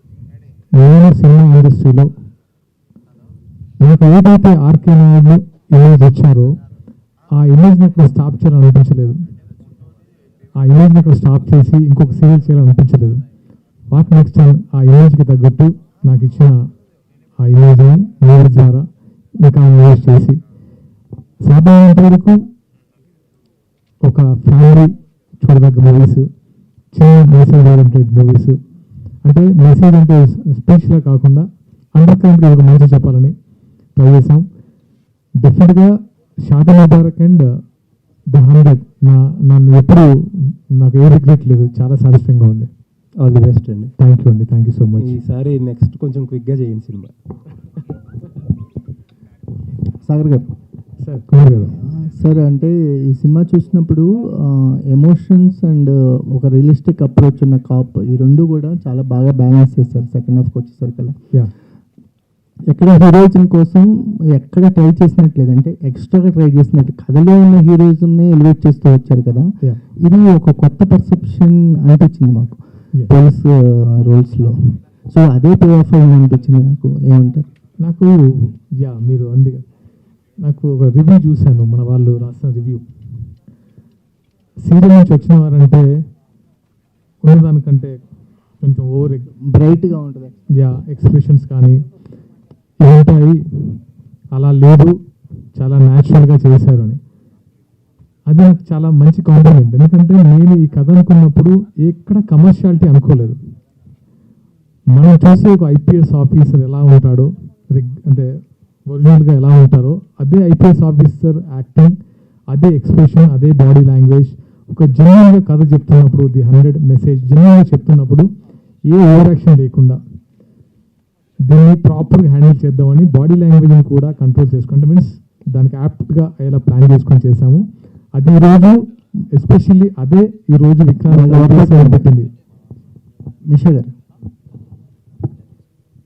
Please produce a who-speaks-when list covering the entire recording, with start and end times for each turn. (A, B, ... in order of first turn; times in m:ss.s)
0:00.7-0:02.1 A
0:03.8-0:06.6 A
0:07.3-0:09.2 A
0:10.6-0:13.2 A
0:13.9-0:16.7 A
0:17.4-0:20.4 A
0:21.4-0:22.4 A
0:24.0-0:26.3 A
0:26.9-0:28.6 A
0:29.2-0:33.4 A
0:33.9-0:34.4 A
0:35.4-0:37.6 A
0:38.3-0:42.7 A
0:43.1-0:43.9 B
0:44.0-0:45.2 A
0:45.0-0:47.1 B
0:50.0-0:50.5 C
0:51.0-0:51.7 A
0:51.6-1:01.2 C
1:02.7-1:17.4 C
1:17.8-1:19.6 A
1:20.4-1:22.9 A
1:24.6-1:25.9 A
1:27.2-1:28.0 A
1:28.6-1:29.3 A
1:29.5-1:30.4 C
1:30.5-1:31.8 A
1:32.8-1:35.0 A
1:35.6-1:37.0 A
1:38.3-1:43.4 A
1:44.9-1:48.3 A
1:48.8-1:58.3 A
1:58.8-2:00.0 A
2:01.4-2:12.3 A
2:11.1-2:12.0 C
2:13.5-2:13.9 C